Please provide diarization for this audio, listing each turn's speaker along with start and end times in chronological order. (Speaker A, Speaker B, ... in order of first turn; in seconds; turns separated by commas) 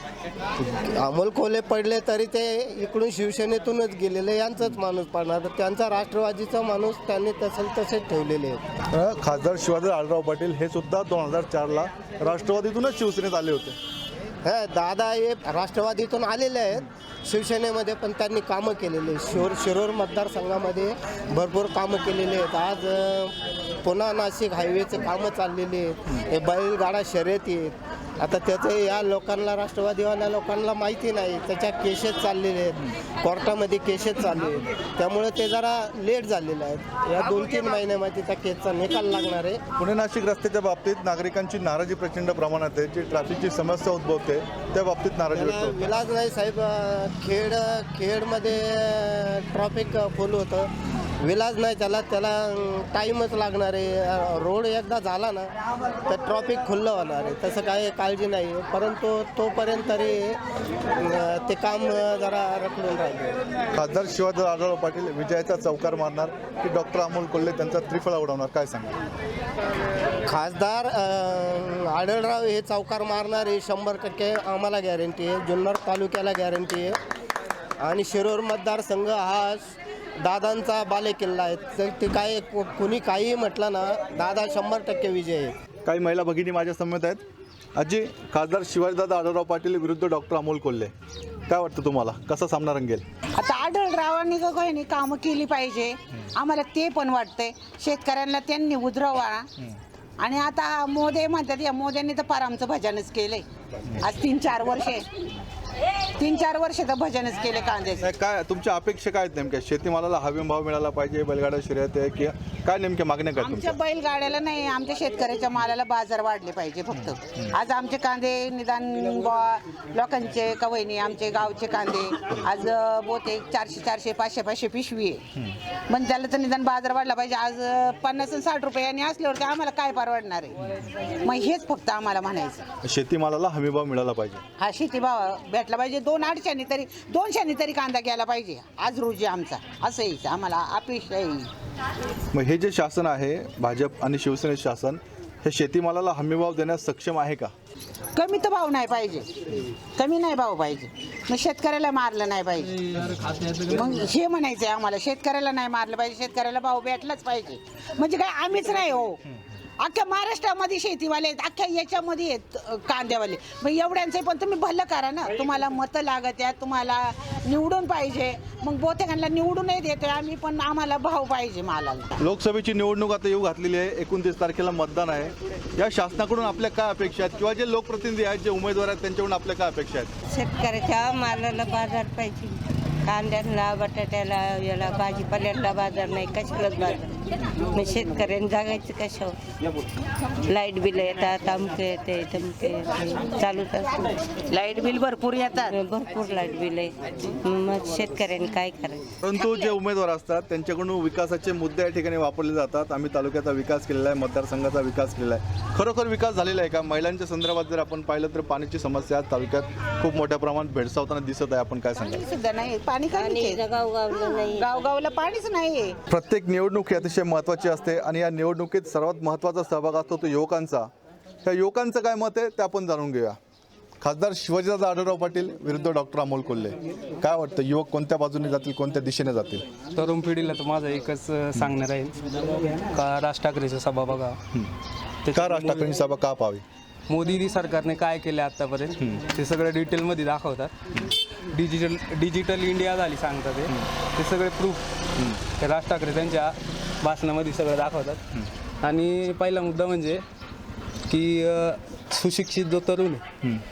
Speaker A: 0.6-8.6, Speaker B: 8.9-13.8, Speaker A: 14.4-23.3, Speaker A: 23.8-39.6, Speaker B: 39.8-45.8, Speaker A: 45.3-50.7, Speaker A: 51.2-55.5, Speaker A: 56.1-60.4, Speaker A: 61.0-63.4, Speaker B: 63.8-69.0, Speaker A: 70.3-77.0, Speaker A: 77.8-79.6, Speaker A: 80.2-85.5, Speaker B: 85.9-87.2, Speaker B: 87.8-90.9, Speaker B: 91.5-93.0, Speaker C: 93.4-99.5, Speaker C: 100.2-103.4, Speaker C: 104.0-105.0, Speaker C: 106.2-108.1, Speaker B: 108.0-113.8, Speaker C: 113.4-125.2, Speaker C: 125.9-130.5, Speaker C: 131.2-132.6, Speaker B: 132.8-134.4, Speaker C: 134.6-141.5, Speaker B: 142.3-147.5, Speaker C: 148.2-149.3, Speaker C: 149.9-152.8, Speaker C: 153.5-159.2, Speaker C: 159.8-172.1, Speaker B: 172.2-180.1, Speaker D: 180.3-187.1, Speaker D: 187.7-189.4, Speaker D: 190.5-193.9, Speaker C: 194.5-195.8, Speaker D: 195.7-199.1, Speaker B: 199.2-212.2, Speaker C: 212.0-216.0, Speaker D: 213.2-214.7, Speaker B: 216.1-220.9, Speaker B: 221.4-223.4, Speaker B: 224.0-229.7, Speaker E: 229.9-234.4, Speaker E: 235.3-236.0, Speaker B: 235.3-236.6, Speaker E: 237.1-244.8, Speaker E: 245.6-248.2, Speaker E: 248.8-250.2, Speaker E: 251.1-253.2